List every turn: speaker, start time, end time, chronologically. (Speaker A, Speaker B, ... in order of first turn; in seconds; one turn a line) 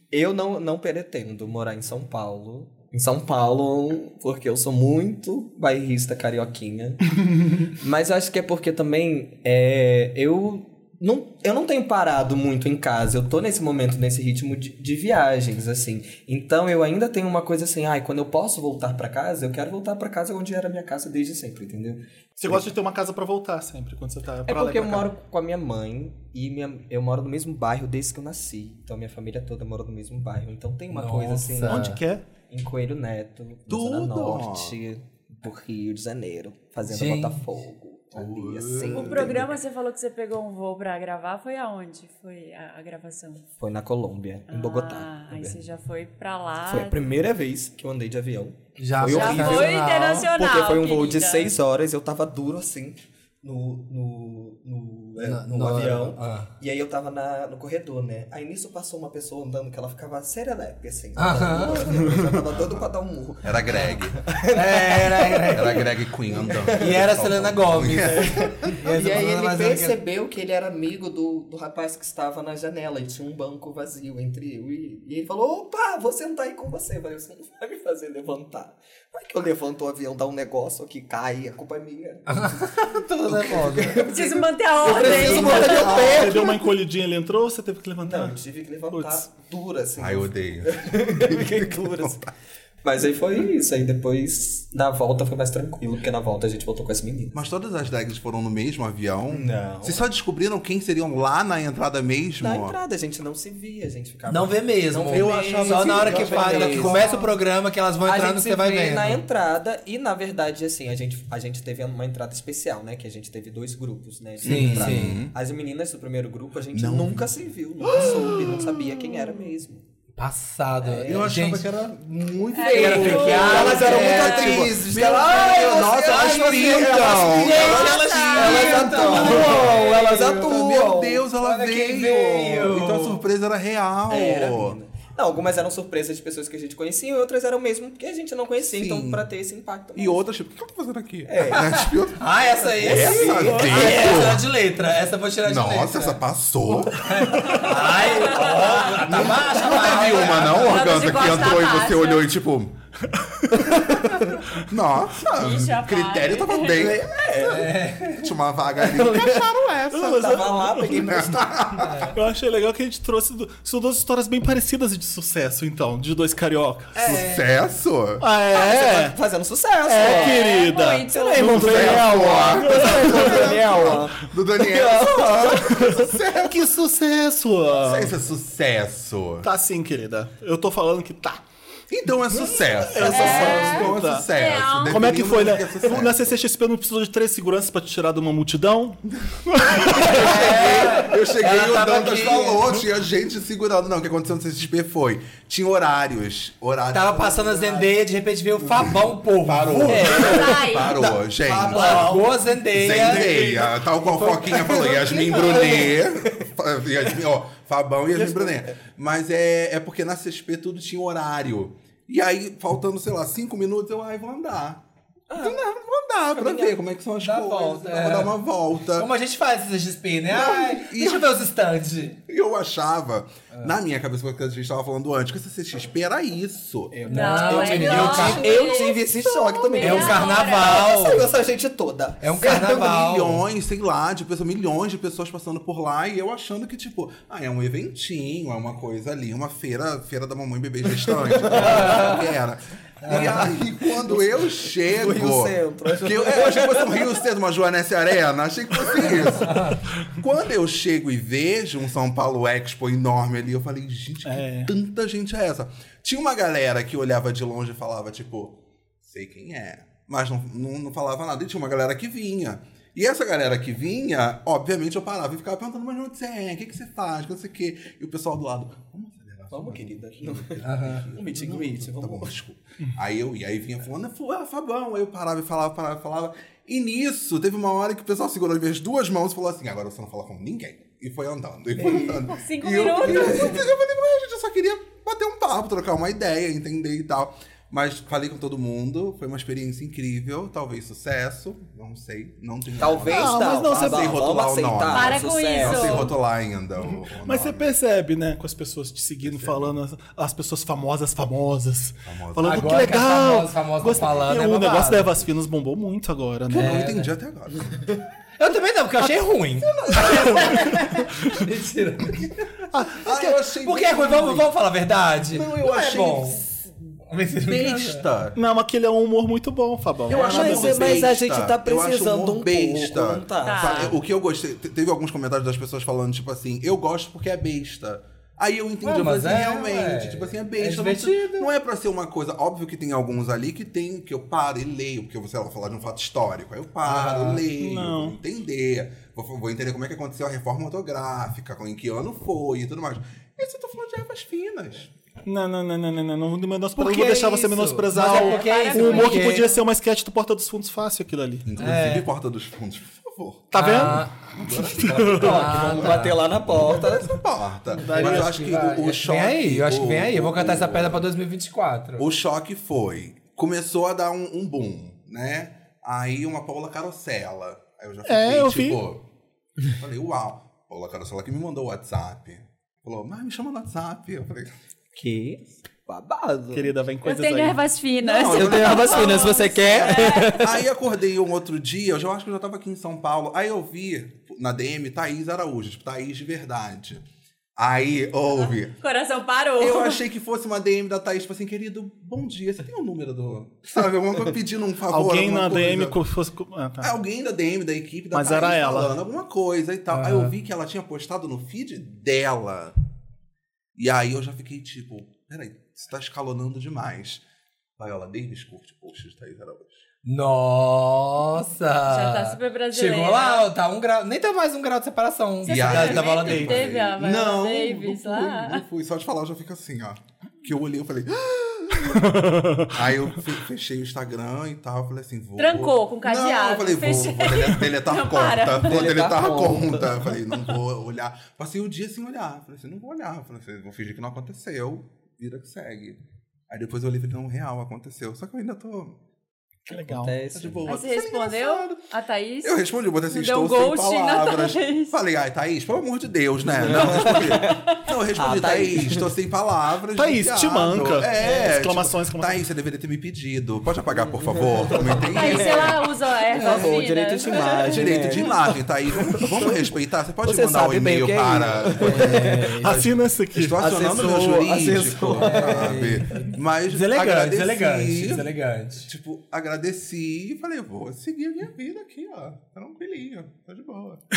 Speaker A: 0.1-22.6
Speaker B: 22.4-25.1
Speaker A: 24.4-31.9
Speaker C: 30.9-32.0
Speaker B: 31.6-32.2
Speaker A: 32.5-39.5
Speaker D: 33.7-34.8
Speaker C: 36.8-37.4
Speaker D: 38.1-39.5
Speaker E: 38.9-43.5
Speaker A: 43.6-45.6
Speaker E: 44.5-47.1
Speaker A: 46.6-67.2
Speaker C: 48.8-50.3
Speaker E: 49.1-51.5
Speaker C: 55.2-56.5
Speaker C: 61.1-62.0
Speaker D: 63.4-64.2
Speaker C: 64.5-65.8
Speaker D: 65.5-68.8
Speaker C: 66.7-70.0
Speaker A: 68.0-86.6
Speaker C: 82.3-84.0
Speaker E: 84.0-86.0
Speaker D: 84.8-86.4
Speaker B: 85.6-88.4
Speaker A: 88.0-92.3
Speaker B: 88.9-89.2
Speaker D: 90.0-92.3
Speaker A: 92.8-97.4
Speaker D: 97.3-102.8
Speaker A: 99.3-100.1
Speaker A: 102.4-107.2
Speaker C: 104.3-109.2
Speaker D: 105.1-107.3
Speaker A: 108.1-119.8
Speaker D: 114.4-115.3
Speaker C: 114.4-115.2
Speaker D: 116.7-119.4
Speaker C: 120.2-121.7
Speaker A: 120.8-121.3
Speaker D: 121.0-128.0
Speaker E: 122.5-124.1
Speaker C: 122.7-130.7
Speaker A: 122.8-131.3
Speaker E: 127.4-129.4
Speaker D: 129.2-134.8
Speaker C: 131.3-133.2
Speaker A: 134.1-140.2
Speaker D: 138.6-139.2
Speaker D: 139.9-144.5
Speaker A: 141.2-141.8
Speaker C: 141.6-146.2
Speaker A: 142.5-144.3
Speaker D: 145.4-147.7
Speaker C: 146.9-151.5
Speaker E: 147.4-149.0
Speaker D: 148.5-152.7
Speaker E: 150.4-152.3
Speaker B: 153.2-153.8
Speaker A: 153.5-154.3
Speaker D: 154.6-157.2
Speaker E: 155.3-156.9
Speaker A: 156.7-157.9
Speaker C: 157.4-158.3
Speaker D: 158.0-162.1
Speaker A: 158.8-161.8
Speaker B: 160.3-161.2
Speaker C: 161.8-162.1
Speaker B: 162.0-166.9
Speaker C: 166.9-167.5
Speaker D: 167.0-168.2
Speaker B: 168.2-169.1
Speaker A: 168.5-170.4
Speaker B: 169.9-173.6
Speaker E: 170.0-171.5
Speaker A: 171.1-176.0
Speaker D: 171.4-176.7
Speaker B: 176.3-178.2
Speaker D: 177.8-179.5
Speaker B: 179.4-181.4
Speaker D: 181.9-186.4
Speaker B: 182.3-184.3
Speaker E: 183.0-185.1
Speaker B: 184.8-190.4
Speaker D: 189.5-197.9
Speaker C: 189.8-192.9
Speaker C: 196.9-200.6
Speaker D: 198.6-214.8
Speaker A: 199.9-202.2
Speaker E: 200.1-201.0
Speaker C: 201.6-204.9
Speaker A: 204.5-206.4
Speaker A: 208.1-208.7
Speaker A: 215.3-215.6
Speaker D: 215.4-219.1
Speaker A: 216.3-216.8
Speaker C: 217.2-218.4
Speaker C: 218.9-222.2
Speaker D: 220.3-221.3
Speaker D: 222.3-227.3
Speaker A: 226.9-233.0
Speaker C: 227.1-228.8
Speaker E: 227.1-229.1
Speaker D: 229.6-230.0
Speaker E: 229.7-231.1
Speaker C: 229.8-231.3
Speaker C: 232.2-233.4
Speaker D: 232.5-297.7
Speaker A: 241.1-242.1
Speaker C: 241.6-242.2
Speaker C: 243.0-243.5
Speaker A: 244.8-247.2
Speaker C: 249.5-249.8
Speaker B: 254.2-254.7
Speaker A: 269.5-272.3
Speaker C: 270.6-271.1
Speaker A: 281.8-282.3
Speaker E: 282.3-283.6
Speaker A: 283.0-283.5
Speaker A: 292.8-296.1
Speaker B: 293.1-294.1
Speaker E: 294.9-296.1
Speaker B: 297.2-306.8
Speaker D: 299.2-299.8
Speaker D: 302.1-303.0
Speaker C: 302.4-305.3
Speaker C: 306.5-307.1
Speaker D: 306.5-308.0
Speaker C: 308.4-312.5
Speaker A: 309.7-310.8
Speaker B: 312.7-313.4
Speaker D: 313.0-314.5
Speaker C: 313.6-316.4
Speaker D: 315.3-316.5
Speaker C: 317.1-318.0
Speaker D: 317.4-318.4
Speaker B: 318.4-321.0
Speaker D: 320.1-344.9
Speaker A: 320.1-323.9
Speaker E: 323.4-323.9
Speaker C: 328.8-331.5
Speaker C: 336.8-337.4
Speaker B: 337.6-338.2
Speaker B: 345.2-351.5
Speaker C: 346.8-349.5
Speaker E: 347.9-349.6
Speaker D: 351.4-355.9
Speaker C: 351.6-352.1
Speaker B: 353.5-355.4
Speaker C: 353.5-354.3
Speaker C: 355.0-356.2
Speaker A: 355.1-357.2
Speaker D: 356.5-361.1
Speaker B: 357.8-358.3
Speaker C: 357.8-362.1
Speaker D: 362.0-369.0
Speaker B: 368.1-368.8
Speaker D: 369.7-374.5
Speaker A: 374.9-376.7
Speaker B: 376.5-377.6
Speaker E: 377.0-380.4
Speaker D: 378.0-388.8
Speaker A: 378.3-380.6
Speaker E: 388.4-390.0
Speaker D: 389.6-396.0
Speaker B: 394.9-396.9
Speaker D: 396.8-402.7
Speaker B: 398.1-398.9
Speaker C: 399.9-400.3
Speaker D: 403.7-407.2
Speaker D: 407.8-409.8
Speaker C: 410.0-416.8
Speaker E: 411.9-413.5
Speaker E: 415.4-418.6
Speaker D: 415.4-439.0
Speaker B: 421.9-422.9
Speaker E: 425.4-428.9
Speaker A: 428.6-430.1
Speaker A: 439.7-440.7
Speaker B: 439.7-440.1
Speaker D: 440.3-441.9
Speaker E: 440.6-444.9
Speaker D: 442.4-456.7
Speaker A: 446.4-449.1
Speaker E: 447.4-447.8
Speaker B: 449.9-452.4
Speaker A: 453.9-459.7
Speaker E: 455.1-457.8
Speaker D: 457.6-474.0
Speaker A: 460.2-462.9
Speaker C: 461.8-462.4
Speaker B: 462.0-463.6
Speaker A: 463.6-465.8
Speaker C: 465.2-468.9